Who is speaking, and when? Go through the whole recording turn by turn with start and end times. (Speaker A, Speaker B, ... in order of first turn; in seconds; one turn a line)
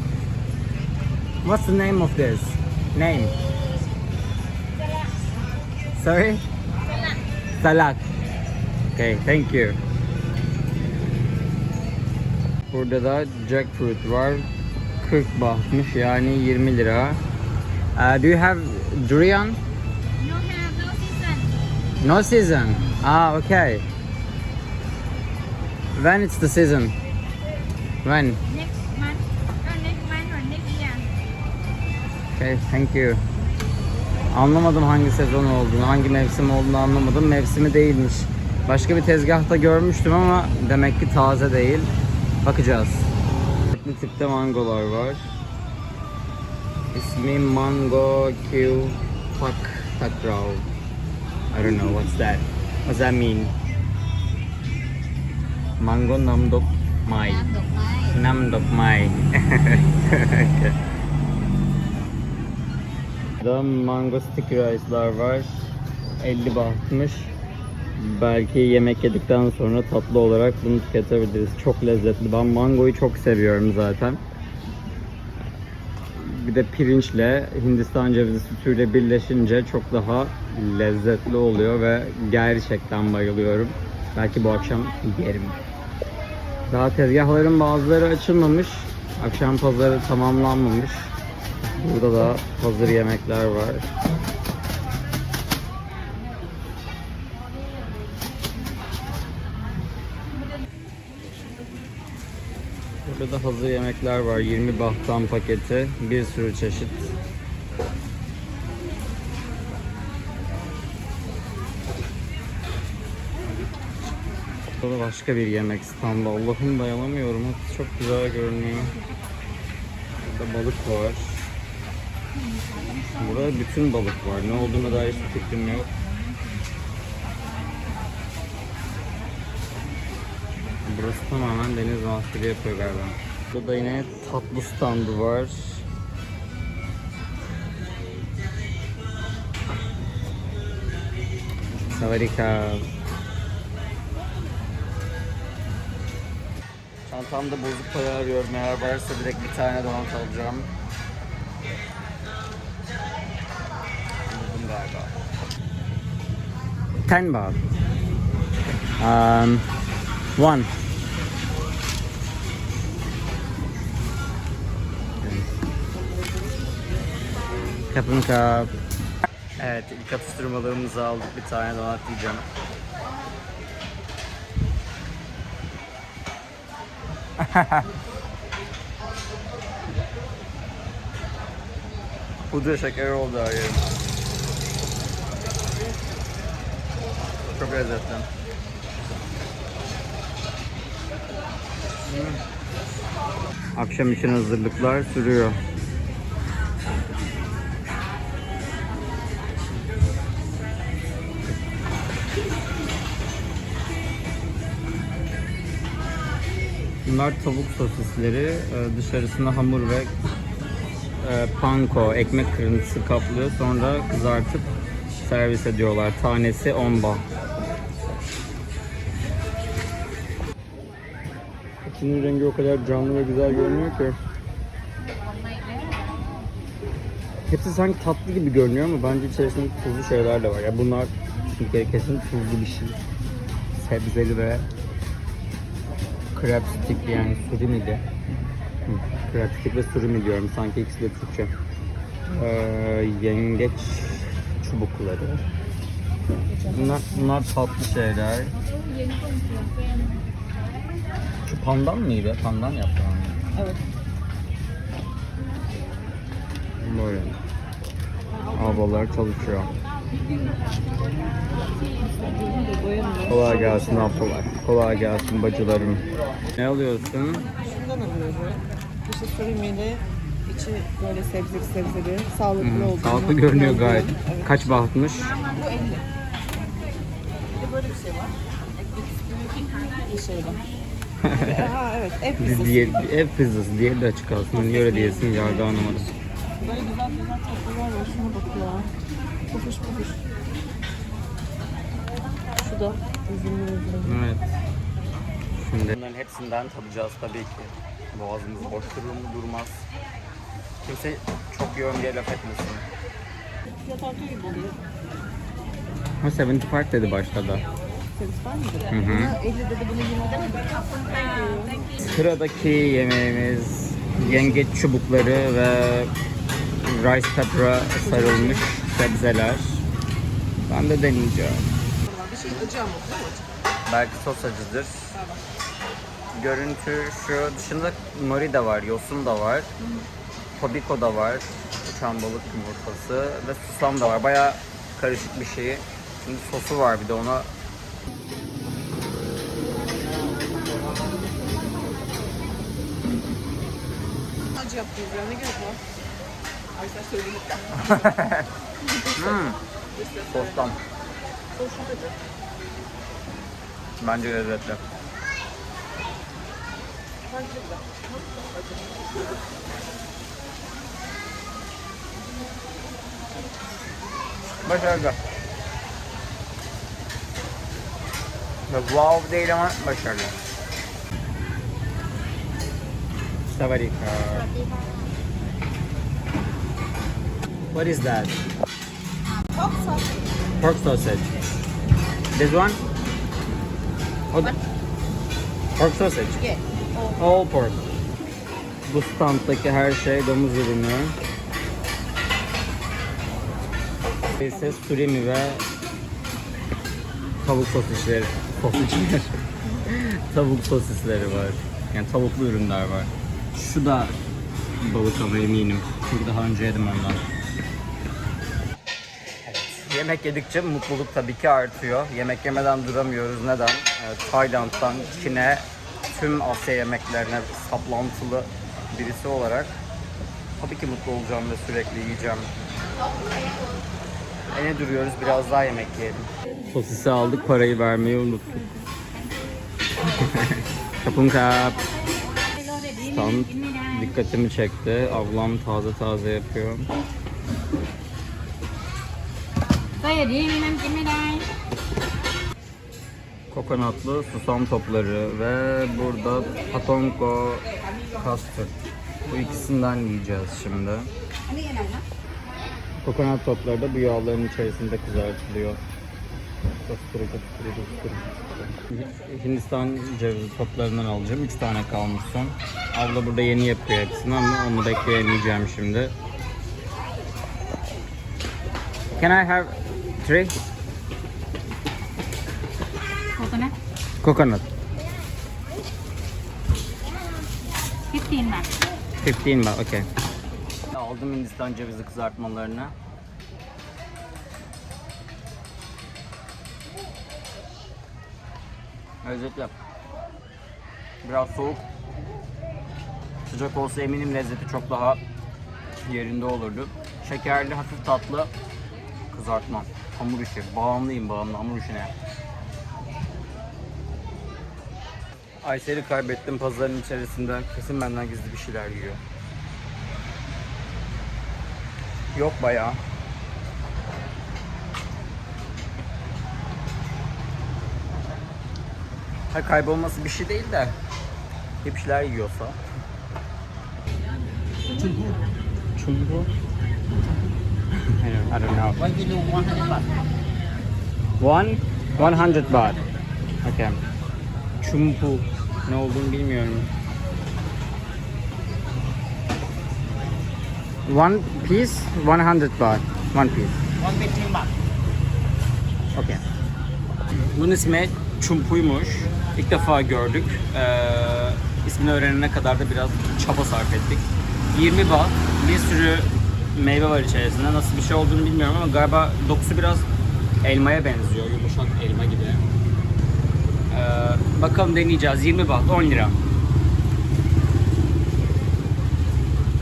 Speaker A: 1.4-3.3
Speaker A: 5.9-6.4
Speaker A: 7.6-8.0
Speaker A: 8.9-9.8
Speaker A: 12.7-14.5
Speaker A: 15.0-17.2
Speaker A: 17.9-19.6
Speaker B: 20.2-21.5
Speaker A: 22.0-23.8
Speaker A: 25.9-26.9
Speaker A: 28.0-28.4
Speaker B: 28.5-31.1
Speaker A: 32.3-33.2
Speaker A: 34.3-41.9
Speaker A: 42.4-43.1
Speaker A: 43.7-45.2
Speaker A: 46.9-50.7
Speaker A: 51.5-53.5
Speaker A: 55.8-60.8
Speaker B: 57.5-57.9
Speaker A: 63.4-67.3
Speaker A: 68.0-74.2
Speaker A: 76.1-85.6
Speaker A: 86.7-91.1
Speaker A: 91.7-93.9
Speaker A: 103.0-107.1
Speaker A: 114.8-118.9
Speaker A: 120.2-121.5
Speaker A: 123.1-125.9
Speaker A: 130.8-135.8
Speaker A: 141.9-142.9
Speaker A: 147.1-150.7
Speaker A: 154.2-155.2
Speaker A: 157.0-157.6
Speaker A: 159.0-159.7
Speaker A: 160.3-160.7
Speaker A: 165.2-165.6
Speaker A: 167.8-168.7
Speaker A: 169.6-172.5
Speaker A: 177.4-177.9
Speaker A: 182.5-183.8
Speaker A: 187.5-188.3
Speaker A: 192.1-192.4
Speaker A: 193.8-195.6
Speaker A: 207.1-210.1
Speaker A: 211.2-214.7
Speaker A: 215.2-217.2
Speaker A: 221.8-224.2
Speaker A: 227.5-233.0
Speaker A: 233.8-234.7
Speaker A: 236.3-238.0
Speaker A: 238.9-241.5
Speaker A: 242.3-245.4
Speaker C: 246.5-247.3
Speaker A: 246.7-248.6
Speaker A: 251.4-253.4
Speaker C: 253.5-253.8
Speaker A: 256.8-257.4
Speaker A: 258.5-259.7
Speaker C: 262.1-264.2
Speaker A: 263.3-266.0
Speaker A: 266.6-267.5
Speaker C: 267.6-274.8
Speaker A: 272.6-275.4
Speaker C: 275.4-276.0
Speaker C: 277.5-280.6
Speaker A: 281.2-281.7
Speaker C: 281.4-283.0
Speaker A: 282.4-286.1
Speaker C: 284.6-285.7
Speaker C: 286.6-288.9
Speaker C: 289.5-290.2
Speaker C: 292.6-294.2
Speaker A: 294.0-294.4
Speaker A: 295.6-299.9
Speaker A: 300.8-302.9
Speaker C: 303.7-304.8
Speaker A: 306.2-307.6
Speaker C: 308.1-311.9
Speaker A: 308.9-309.3
Speaker A: 312.0-316.1
Speaker C: 314.2-314.6
Speaker A: 316.8-319.8
Speaker C: 318.0-318.6
Speaker A: 320.7-321.7
Speaker C: 322.1-323.5
Speaker A: 323.9-325.1
Speaker C: 325.1-325.4
Speaker A: 326.3-329.7
Speaker A: 330.6-337.5
Speaker C: 344.5-345.8
Speaker C: 346.8-348.1
Speaker A: 347.7-348.5
Speaker C: 348.8-349.4
Speaker A: 349.1-349.6
Speaker C: 349.9-350.7
Speaker A: 350.3-350.8
Speaker C: 351.5-352.2
Speaker A: 354.0-354.8
Speaker C: 357.3-359.1
Speaker A: 364.6-365.2
Speaker A: 368.7-370.4
Speaker A: 373.5-374.5
Speaker B: 374.5-375.0
Speaker A: 377.7-378.4
Speaker C: 379.6-380.0
Speaker A: 380.6-381.3
Speaker A: 382.3-382.8
Speaker A: 385.8-386.4
Speaker C: 386.5-387.1
Speaker A: 387.1-387.8
Speaker A: 388.8-391.1
Speaker A: 394.4-395.6
Speaker A: 397.4-404.2
Speaker A: 404.8-407.2
Speaker A: 409.4-419.8
Speaker A: 420.6-422.5
Speaker A: 424.5-428.8
Speaker A: 430.1-431.8
Speaker A: 433.0-436.9
Speaker B: 440.0-441.5
Speaker A: 443.5-448.7
Speaker A: 449.3-451.1
Speaker B: 451.5-452.0
Speaker A: 453.0-455.8
Speaker A: 456.9-466.1
Speaker A: 469.1-470.5
Speaker B: 473.4-473.7
Speaker A: 474.2-474.6
Speaker B: 478.1-478.7
Speaker A: 479.2-480.1
Speaker A: 480.9-482.9
Speaker A: 489.2-489.7
Speaker A: 491.2-491.8
Speaker A: 493.4-495.2
Speaker A: 496.0-498.5
Speaker A: 499.3-502.1
Speaker A: 505.6-509.2
Speaker A: 512.3-513.0
Speaker A: 519.5-521.0
Speaker A: 521.8-522.8
Speaker A: 526.0-526.5
Speaker A: 528.0-529.3
Speaker A: 531.4-533.0
Speaker A: 533.6-534.0
Speaker A: 534.8-536.9
Speaker A: 541.0-543.8
Speaker A: 546.1-546.4
Speaker A: 547.5-560.1
Speaker A: 560.6-562.6
Speaker A: 563.9-566.4